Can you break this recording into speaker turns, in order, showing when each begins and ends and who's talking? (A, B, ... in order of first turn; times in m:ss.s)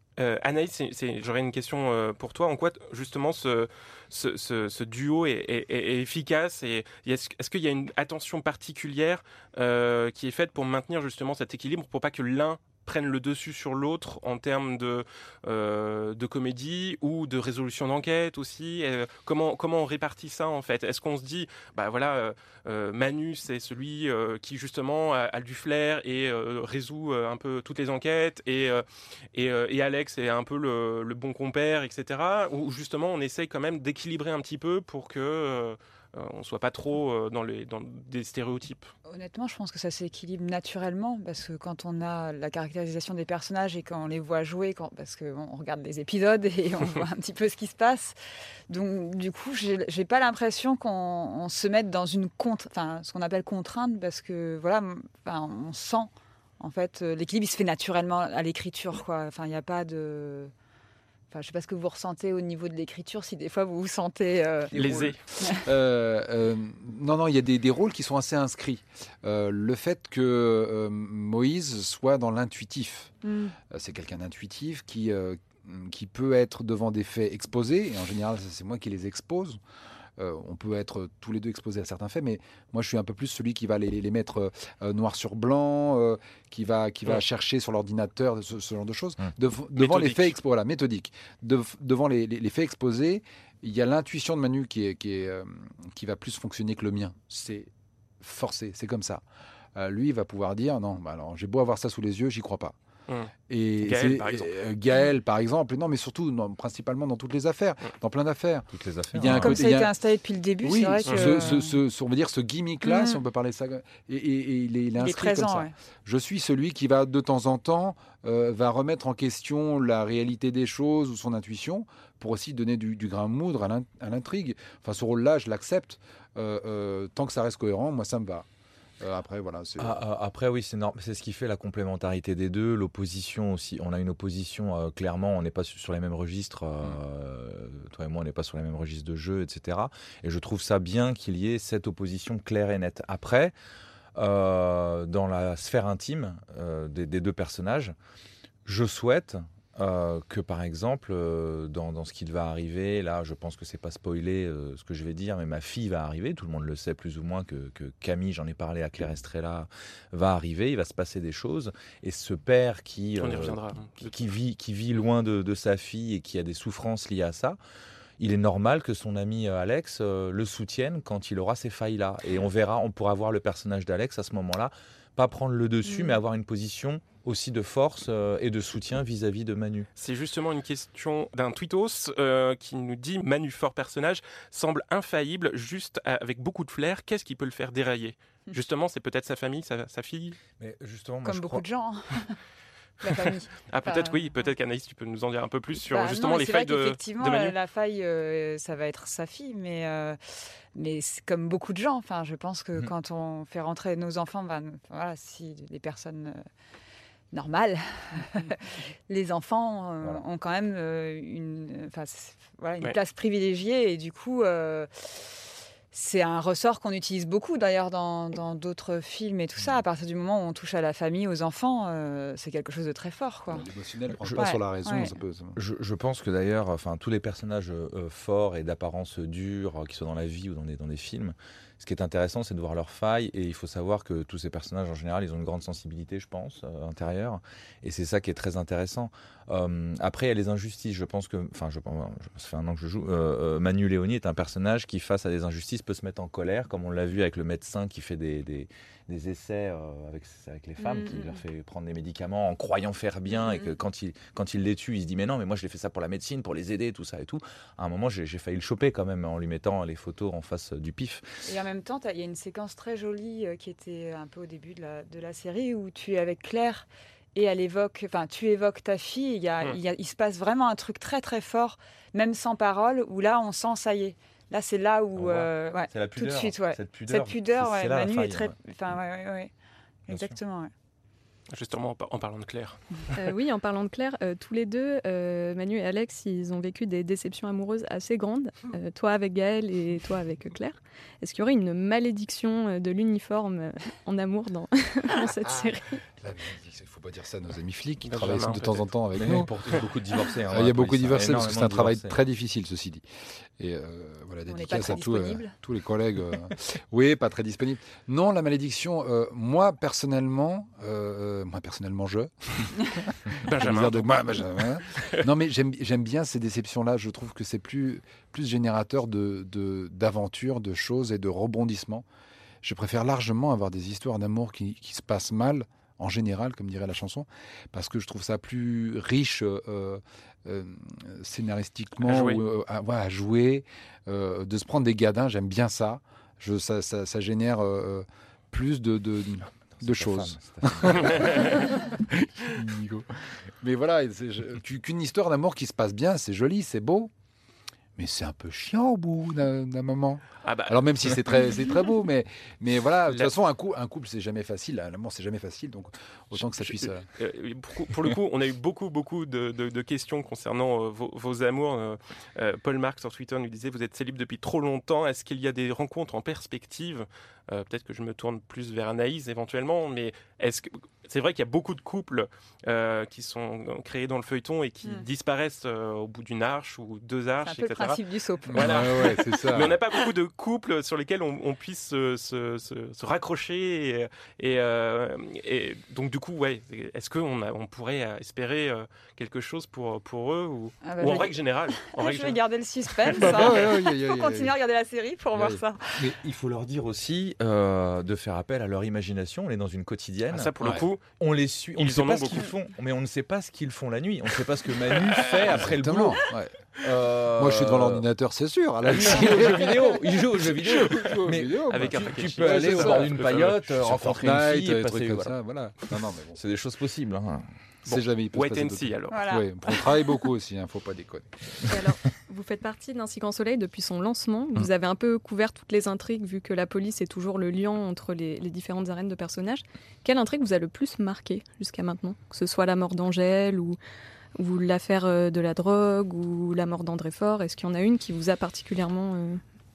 0:00.2-0:38.9 A
0:39.1-0:48.2 B
0:48.7-1:00.5 B
1:01.3-1:04.8 B
1:04.7-1:13.1 C
1:04.8-1:05.2 A
1:13.2-1:13.6 B
1:13.7-1:19.6 C
1:20.2-1:39.2 C
1:29.8-1:30.4 A
1:39.8-1:42.8 C
1:43.1-1:44.5 A
1:43.5-1:49.9 C
1:48.7-1:49.6 D
1:49.2-1:51.8 B
1:50.6-2:08.5 C
1:51.1-1:51.4 A
1:52.8-1:53.2 B
1:55.0-1:55.7 B
2:09.0-2:10.0 C
2:09.8-2:23.5 D
2:24.2-2:28.0 D
2:28.7-2:47.6 D
2:43.2-2:44.4 A
2:48.2-2:59.9 D
3:00.0-3:10.4 A
3:10.6-3:11.6 D
3:11.2-3:12.4 B
3:13.0-3:14.2 B
3:13.7-3:17.6 A
3:15.9-3:26.4 B
3:27.3-3:43.7 B
3:43.5-3:45.6 C
3:44.4-3:45.2 B
3:45.6-4:21.3 D
4:10.8-4:11.4 B
4:13.4-4:13.7 B
4:21.4-4:39.5 B
4:35.2-4:38.5 D
4:40.1-4:40.4 D
4:40.1-4:40.7 B
4:41.5-4:43.3 A
4:43.2-4:56.0 E
4:55.4-4:59.8 C
4:58.0-4:58.9 A
4:59.2-5:02.2 D
5:00.5-5:03.1 C
5:03.6-5:22.1 C
5:04.5-5:05.6 B
5:13.4-5:15.2 A
5:22.6-5:47.1 C
5:32.0-5:32.4 A
5:39.7-5:41.8 D
5:48.0-5:57.1 C
5:50.4-5:50.8 A
5:56.4-6:18.0 A
6:17.4-6:19.1 B
6:18.5-6:19.7 C
6:18.5-6:32.4 A
6:30.8-6:36.0 B
6:33.0-6:33.7 A
6:33.1-6:34.5 C
6:35.3-6:36.2 C
6:36.1-6:40.5 D
6:40.3-6:41.0 A
6:40.6-6:40.9 C
6:41.2-6:46.3 D
6:41.8-6:42.4 A
6:44.9-6:45.5 A
6:45.5-6:56.4 C
6:46.8-6:48.0 D
6:48.9-6:55.3 D
6:51.7-6:54.0 A
6:56.4-6:57.5 D
6:57.8-6:59.2 A
6:57.8-7:01.4 C
6:59.1-6:59.9 B
7:01.7-7:13.8 E
7:14.4-7:19.4 E